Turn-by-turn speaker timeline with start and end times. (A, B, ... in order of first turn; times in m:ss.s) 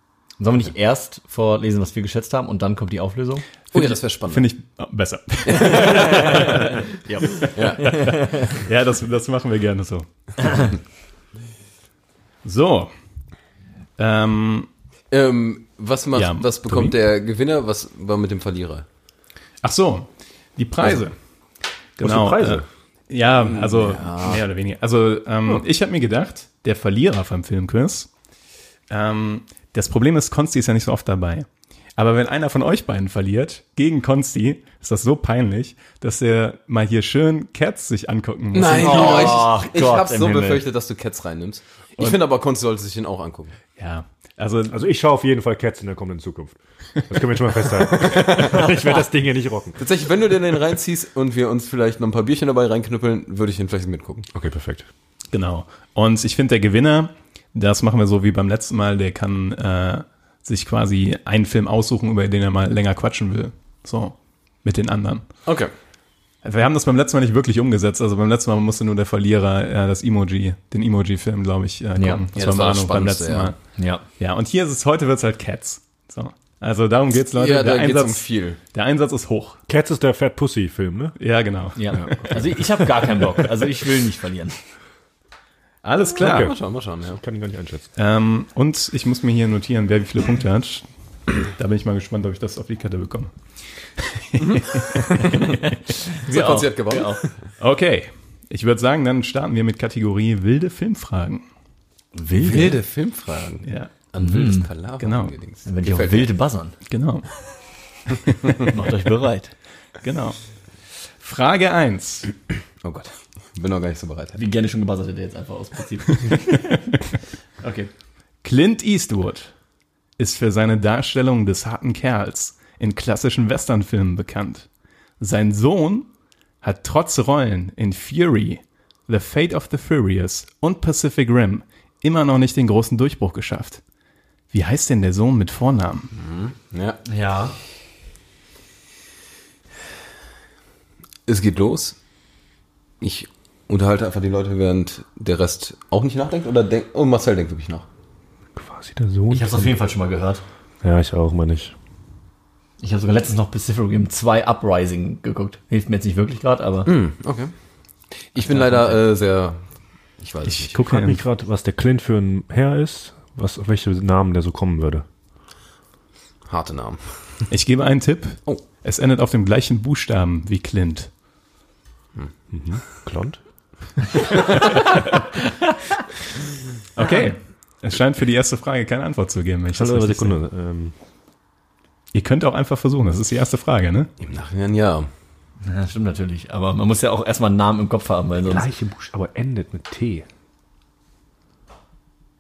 0:00.4-0:03.4 A
0:03.7-0:10.7 B
0:03.7-0:04.5 C
0:05.5-0:06.4 C
0:05.9-0:08.5 A
0:07.5-0:08.1 C
0:12.4-0:12.9 B
0:14.0-0:14.7 B
0:15.1-0:18.8 C
0:16.2-0:17.0 B
0:19.6-0:21.2 B
0:22.0-0:28.1 B
0:22.0-0:22.6 D
0:23.4-0:24.4 C
0:28.9-0:31.5 B
0:32.0-0:39.4 B
0:38.5-0:43.6 C
0:38.6-0:40.6 A
0:43.8-0:44.8 B
0:44.7-0:49.8 D
0:47.9-0:48.6 C
0:49.8-0:54.3 C
0:54.3-0:54.9 D
0:55.3-1:05.3 B
1:05.5-1:05.7 C
1:06.4-1:13.6 B
1:12.4-1:13.5 C
1:13.8-1:14.0 A
1:14.2-1:19.6 B
1:17.3-1:18.6 C
1:19.7-1:21.2 D
1:21.2-1:22.6 B
1:21.8-1:24.6 A
1:25.8-1:26.5 B
1:26.2-1:27.2 C
1:26.2-1:27.9 D
1:28.0-1:30.9 B
1:31.5-1:33.3 B
1:34.0-1:35.5 B
1:34.4-1:35.6 C
1:36.2-1:37.2 A
1:36.2-1:37.3 C
1:37.6-1:41.4 B
1:42.2-1:42.8 A
1:42.4-1:46.3 C
1:43.6-1:43.9 B
1:44.2-1:44.7 A
1:45.0-1:45.3 B
1:45.7-1:46.8 A
1:46.9-1:47.3 B
1:48.6-1:49.5 A
1:50.0-1:50.4 B
1:51.2-1:52.3 B
1:52.8-1:54.4 C
1:54.4-1:57.0 A
1:57.6-1:57.9 A
1:58.4-1:59.5 B
2:00.2-2:04.7 B
2:05.2-2:06.1 B
2:06.6-2:13.8 B
2:14.5-2:16.1 B
2:16.1-2:17.0 C
2:17.1-2:17.6 A
2:21.3-2:22.0 C
2:23.0-2:27.9 C
2:28.6-2:29.7 D
2:29.3-2:30.4 A
2:30.8-2:31.8 D
2:32.8-2:36.9 A
2:36.9-2:37.5 C
2:38.3-2:39.6 C
2:38.4-2:39.0 A
2:40.2-2:40.8 C
2:40.4-2:41.2 B
2:40.8-2:45.0 D
2:46.5-2:47.1 C
2:47.5-2:51.1 B
2:52.5-2:53.4 D
2:57.0-3:00.4 B
2:59.8-3:00.9 D
3:02.1-3:04.1 B
3:04.2-3:05.1 C
3:05.6-3:08.7 A
3:08.5-3:10.2 D